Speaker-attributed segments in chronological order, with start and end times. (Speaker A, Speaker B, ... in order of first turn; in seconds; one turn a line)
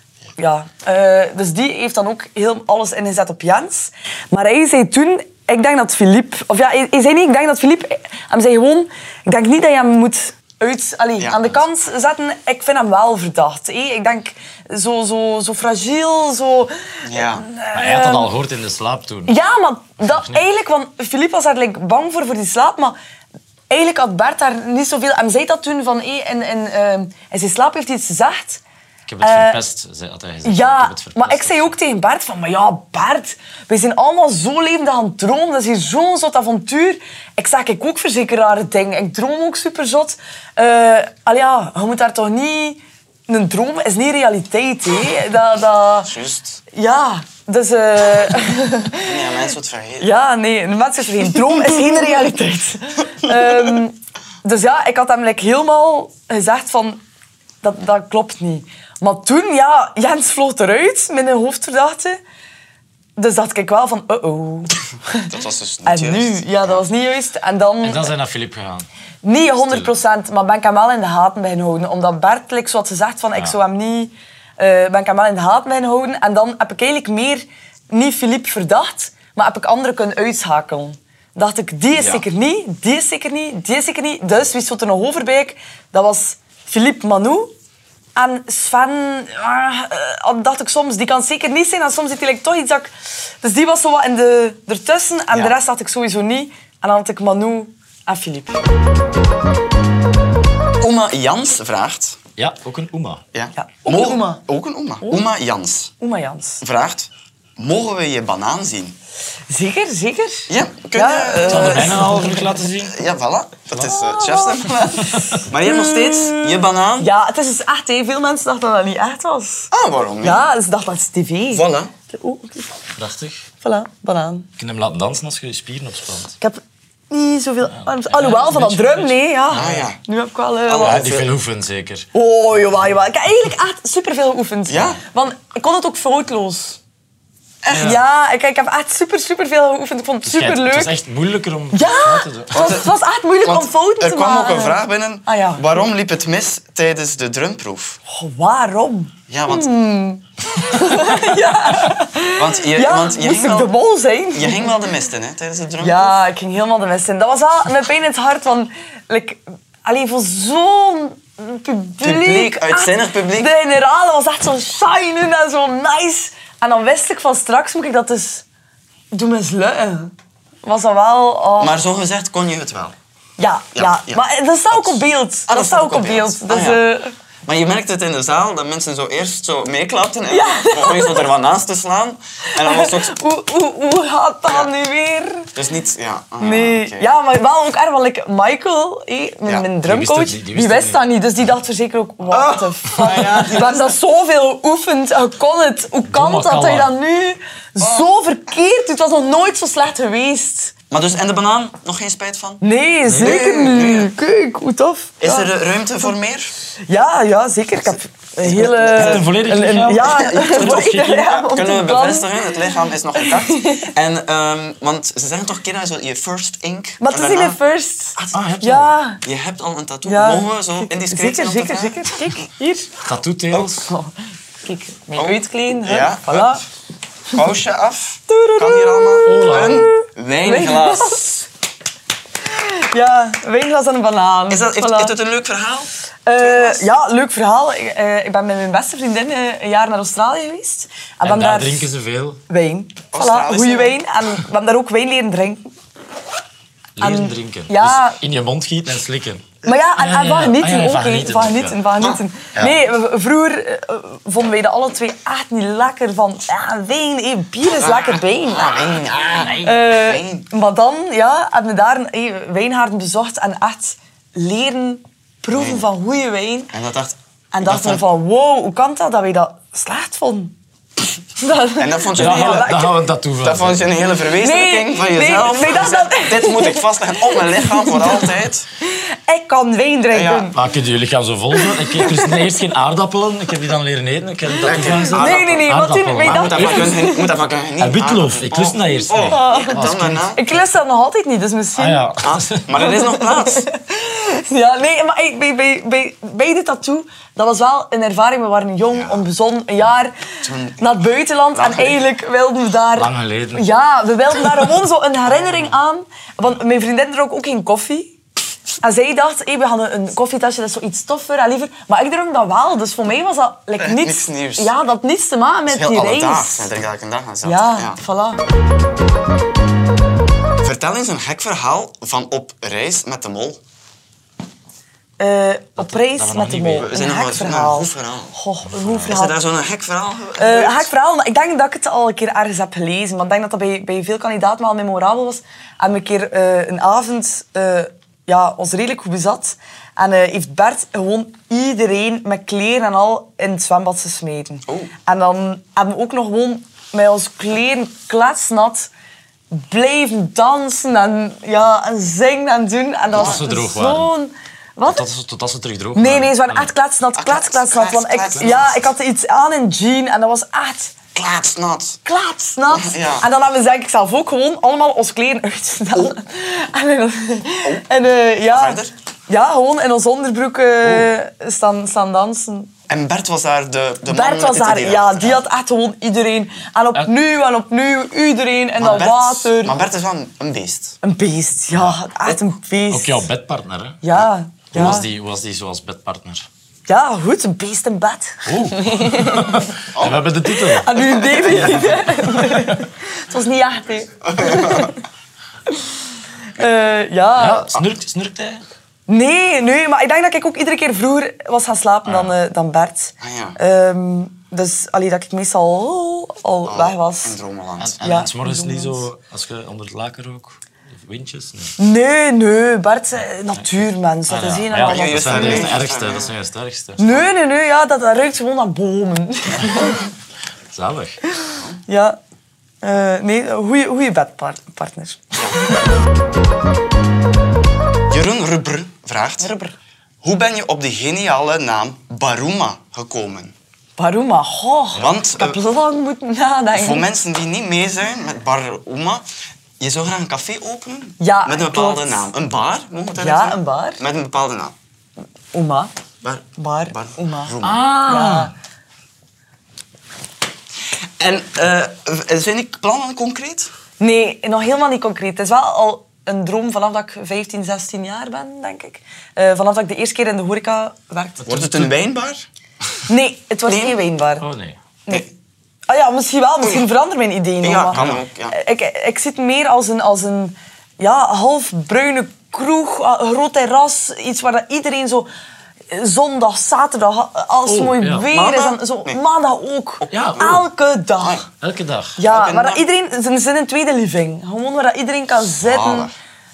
Speaker A: 0.4-18.3
Speaker B: 11.2-11.5
Speaker B: 17.0-17.4
Speaker C: 17.7-19.3
Speaker A: 19.3-22.9
Speaker C: 20.1-20.4
Speaker A: 23.7-28.6
Speaker C: 29.1-31.7
Speaker A: 29.2-29.6
Speaker A: 30.4-46.1
Speaker B: 46.0-46.6
Speaker A: 46.7-57.0
Speaker B: 49.0-50.1
Speaker A: 57.6-62.2
Speaker A: 63.2-65.3
Speaker B: 65.3-66.8
Speaker A: 65.8-68.1
Speaker C: 67.8-68.9
Speaker A: 69.2-87.5
Speaker B: 81.9-82.2
Speaker A: 88.2-98.6
Speaker B: 100.8-102.2
Speaker C: 102.4-103.2
Speaker B: 103.3-105.9
Speaker A: 103.5-104.4
Speaker A: 105.0-105.3
Speaker A: 106.0-106.6
Speaker B: 106.6-109.0
Speaker A: 109.5-112.5
Speaker B: 110.5-112.2
Speaker C: 111.5-113.0
Speaker B: 112.8-117.1
Speaker A: 113.8-119.7
Speaker B: 119.7-120.4
Speaker A: 120.2-122.7
Speaker B: 121.5-121.9
Speaker C: 123.0-123.4
Speaker A: 123.6-124.5
Speaker C: 124.6-126.3
Speaker A: 126.4-131.0
Speaker C: 127.7-129.9
Speaker B: 129.5-130.0
Speaker B: 130.7-131.3
Speaker C: 130.8-132.1
Speaker A: 132.1-136.8
Speaker B: 134.7-135.0
Speaker B: 137.6-137.9
Speaker A: 137.7-140.9
Speaker C: 140.2-142.6
Speaker A: 141.7-145.8
Speaker B: 142.5-142.9
Speaker B: 143.4-148.0
Speaker A: 148.1-154.8
Speaker B: 149.3-149.7
Speaker B: 150.8-151.1
Speaker B: 152.3-153.7
Speaker B: 154.3-156.2
Speaker A: 155.8-168.4
Speaker B: 162.0-163.5
Speaker A: 169.1-170.1
Speaker A: 170.6-171.8
Speaker B: 171.6-172.9
Speaker A: 173.4-177.1
Speaker B: 173.7-176.8
Speaker B: 177.4-183.2
Speaker A: 180.3-181.3
Speaker A: 182.6-185.5
Speaker B: 185.5-187.1
Speaker A: 186.4-200.7
Speaker C: 189.8-191.0
Speaker B: 192.3-193.9
Speaker C: 196.1-196.9
Speaker B: 200.9-202.6
Speaker A: 202.6-205.5
Speaker C: 203.1-203.4
Speaker B: 203.2-204.1
Speaker B: 205.2-206.5
Speaker A: 206.9-212.6
Speaker B: 207.9-209.3
Speaker C: 208.9-211.2
Speaker B: 210.0-217.6
Speaker A: 213.1-213.9
Speaker A: 217.0-219.2
Speaker C: 218.3-218.9
Speaker B: 219.2-222.1
Speaker A: 220.0-222.9
Speaker C: 223.0-223.9
Speaker B: 223.5-223.8
Speaker A: 223.8-224.1
Speaker A: 224.6-226.6
Speaker B: 225.2-226.6
Speaker B: 227.3-231.2
Speaker A: 228.3-231.5
Speaker C: 229.2-229.8
Speaker A: 232.4-235.1
Speaker B: 234.5-236.9
Speaker A: 236.2-241.9
Speaker C: 241.2-242.4
Speaker A: 242.5-245.7
Speaker B: 243.1-244.0
Speaker C: 247.0-251.8
Speaker A: 247.0-248.2
Speaker A: 249.6-258.9
Speaker B: 252.0-252.8
Speaker B: 257.7-260.4
Speaker C: 259.3-259.7
Speaker A: 259.6-266.7
Speaker B: 265.5-265.8
Speaker B: 266.7-268.0
Speaker A: 267.5-270.6
Speaker A: 271.4-272.9
Speaker B: 271.8-272.8
Speaker C: 272.1-274.1
Speaker B: 273.4-278.7
Speaker A: 274.2-280.6
Speaker B: 280.1-280.5
Speaker C: 280.5-287.1
Speaker A: 281.5-282.6
Speaker B: 284.6-290.4
Speaker A: 284.7-287.3
Speaker C: 287.8-290.2
Speaker A: 289.2-292.1
Speaker C: 291.8-292.7
Speaker B: 292.2-293.6
Speaker A: 292.8-300.1
Speaker B: 298.9-299.2
Speaker B: 300.4-301.0
Speaker A: 300.8-308.1
Speaker B: 301.5-302.1
Speaker C: 302.9-303.7
Speaker A: 308.8-316.7
Speaker B: 313.8-314.7
Speaker B: 315.7-318.0
Speaker A: 317.4-318.4
Speaker B: 320.6-323.6
Speaker A: 325.2-329.4
Speaker C: 325.8-326.9
Speaker B: 326.8-328.3
Speaker C: 328.7-329.1
Speaker B: 329.1-330.9
Speaker A: 330.4-348.9
Speaker A: 349.5-355.1
Speaker C: 353.1-354.1
Speaker C: 354.9-356.7
Speaker A: 355.9-360.9
Speaker B: 357.2-358.9
Speaker B: 361.1-362.0
Speaker A: 362.0-372.7
Speaker B: 362.7-363.3
Speaker B: 368.4-368.9
Speaker B: 372.9-375.4
Speaker A: 374.1-379.8
Speaker B: 378.8-381.0
Speaker A: 381.0-383.3
Speaker C: 382.9-384.0
Speaker A: 384.0-385.1
Speaker C: 384.7-386.5
Speaker A: 386.9-389.7
Speaker C: 388.5-392.8
Speaker B: 389.9-390.2
Speaker A: 390.5-394.9
Speaker B: 394.3-394.9
Speaker A: 395.7-395.9
Speaker A: 396.6-397.7
Speaker C: 397.4-398.6
Speaker A: 399.1-407.4
Speaker C: 402.1-402.3
Speaker B: 403.2-403.6
Speaker B: 406.7-408.0
Speaker C: 407.8-411.7
Speaker A: 408.0-409.1
Speaker A: 411.8-415.8
Speaker C: 414.3-417.1
Speaker B: 414.8-416.3
Speaker A: 417.0-420.0
Speaker C: 420.7-421.2
Speaker A: 421.3-422.2
Speaker A: 422.8-425.4
Speaker B: 428.1-429.5
Speaker A: 429.4-429.7
Speaker B: 430.2-433.5
Speaker A: 434.0-437.1
Speaker B: 435.0-435.6
Speaker B: 436.7-439.2
Speaker B: 439.8-444.7
Speaker A: 441.2-442.3
Speaker A: 443.1-444.0
Speaker A: 445.5-445.9
Speaker B: 446.2-447.9
Speaker A: 446.6-448.5
Speaker C: 447.6-448.5
Speaker B: 450.9-453.7
Speaker A: 454.0-461.7
Speaker C: 461.4-461.9
Speaker B: 461.4-462.4
Speaker A: 463.1-464.4
Speaker B: 463.6-464.0
Speaker C: 464.4-464.8
Speaker A: 465.9-475.3
Speaker B: 467.6-468.6
Speaker C: 467.9-468.2
Speaker A: 475.9-481.4
Speaker C: 477.6-478.3
Speaker B: 478.3-479.2
Speaker B: 480.0-480.6
Speaker C: 480.1-480.6
Speaker B: 481.2-481.5
Speaker C: 481.6-482.2
Speaker A: 482.2-486.1
Speaker B: 482.2-482.8
Speaker B: 485.6-486.1